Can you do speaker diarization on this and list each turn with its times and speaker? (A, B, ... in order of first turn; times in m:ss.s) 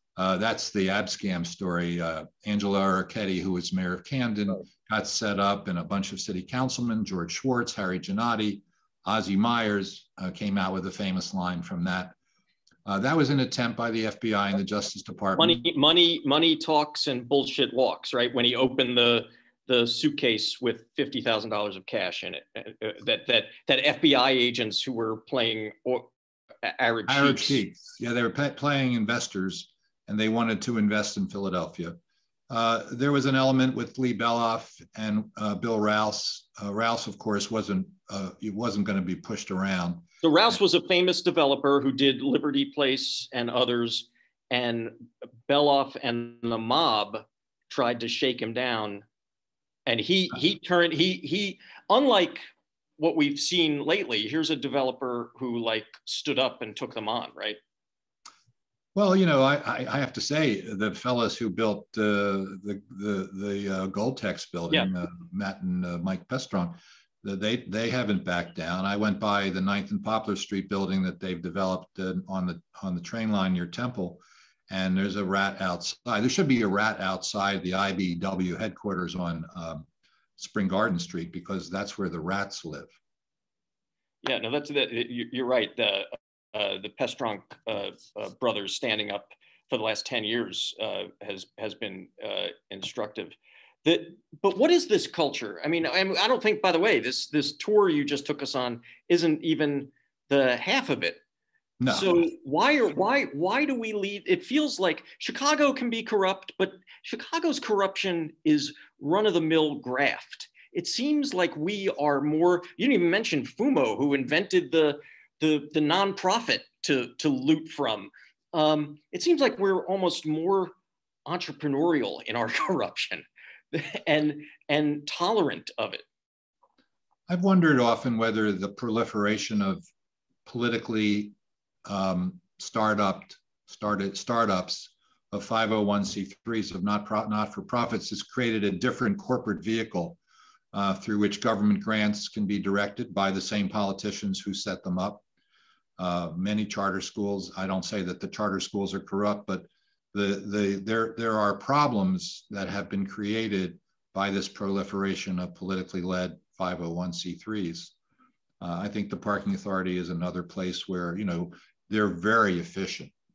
0:00.2-0:12.2 A
0:12.9-0:15.6 A
0:15.4-0:26.1 B
0:26.6-0:27.6 B
0:27.1-0:32.0 A
0:32.5-0:40.1 A
0:40.2-0:49.0 B
0:49.9-0:52.5 B
0:53.0-0:57.6 B
0:59.0-1:19.9 A
1:20.4-1:22.9 A
1:24.2-1:41.2 B
1:41.8-1:42.3 A
1:41.9-2:00.7 B
2:01.3-2:06.0 B
2:07.3-2:09.8 A
2:10.5-2:20.2 A
2:20.7-2:25.2 A
2:26.0-2:37.9 A
2:38.6-2:43.1 A